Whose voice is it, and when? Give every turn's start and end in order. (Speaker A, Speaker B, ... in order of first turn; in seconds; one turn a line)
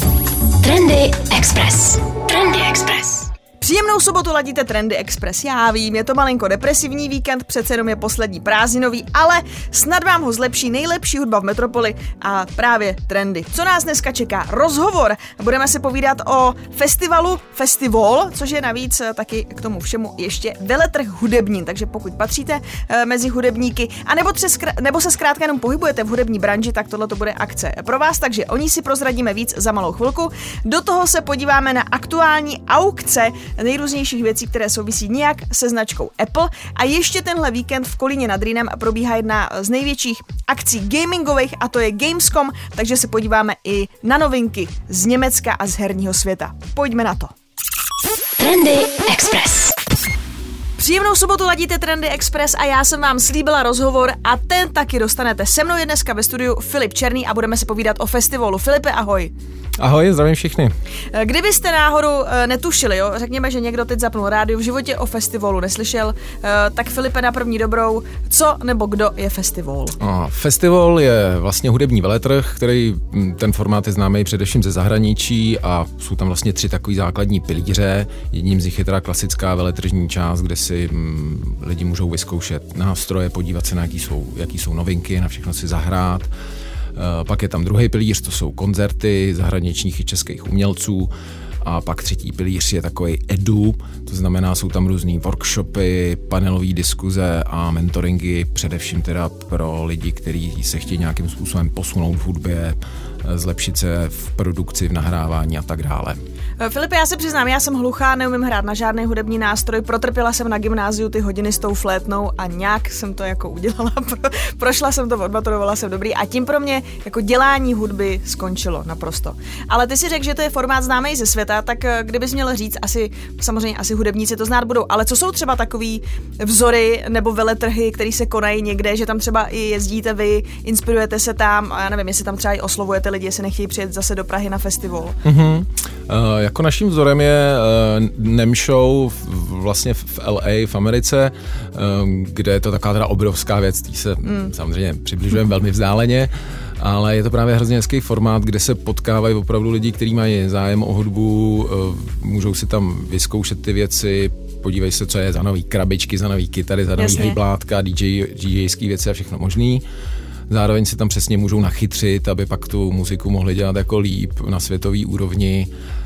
Speaker A: 0.6-3.3
Speaker B: 3.6-47.3
Speaker A: 48.4-49.8
Speaker B: 50.8-59.3
Speaker C: 59.8-60.7
Speaker B: 61.1-70.0
Speaker C: 70.0-86.3
Speaker C: 86.9-91.1
Speaker C: 91.6-106.2
Speaker B: 106.6-135.2
Speaker C: 135.2-159.8
Speaker B: 144.2-144.5
Speaker B: 157.0-157.4
Speaker C: 160.5-165.7